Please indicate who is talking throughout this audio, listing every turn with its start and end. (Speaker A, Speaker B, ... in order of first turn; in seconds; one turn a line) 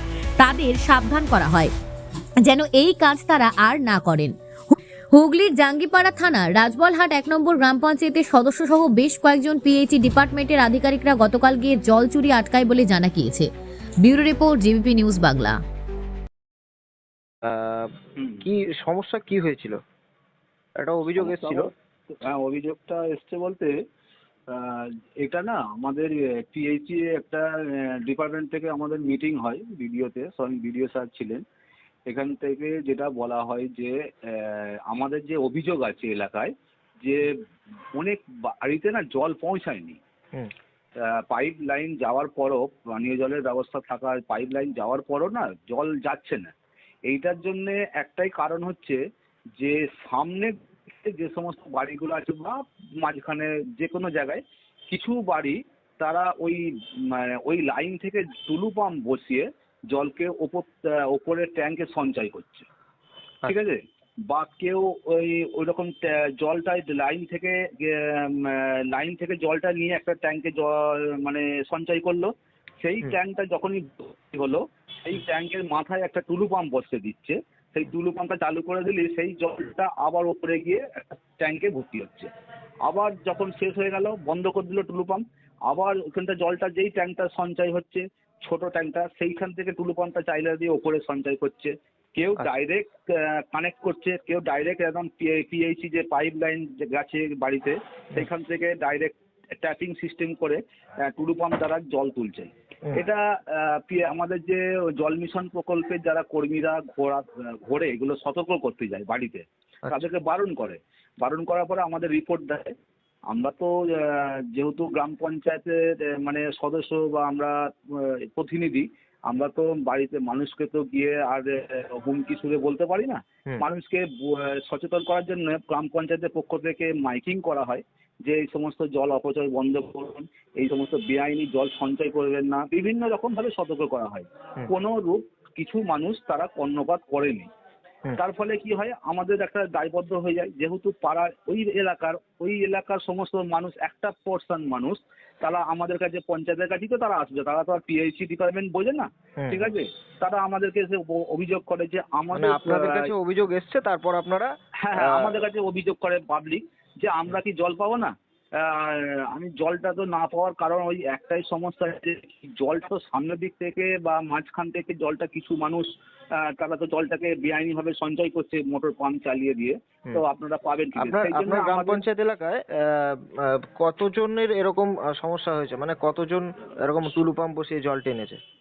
Speaker A: 0.4-1.7
Speaker A: 2.4-4.3
Speaker A: 5.1-13.5
Speaker A: 14.0-15.6
Speaker B: 17.4-19.8
Speaker C: 18.2-18.4
Speaker B: 20.8-21.7
Speaker C: 21.2-23.7
Speaker C: 24.5-31.4
Speaker C: 32.1-36.5
Speaker C: 38.0-40.0
Speaker C: 41.0-46.5
Speaker C: 47.1-49.0
Speaker C: 49.6-54.4
Speaker C: 54.9-62.7
Speaker C: 63.5-82.3
Speaker C: 82.8-112.7
Speaker C: 113.3-137.5
Speaker C: 138.2-153.1
Speaker B: 149.4-149.7
Speaker B: 152.3-155.4
Speaker C: 154.8-172.0
Speaker B: 171.0-178.4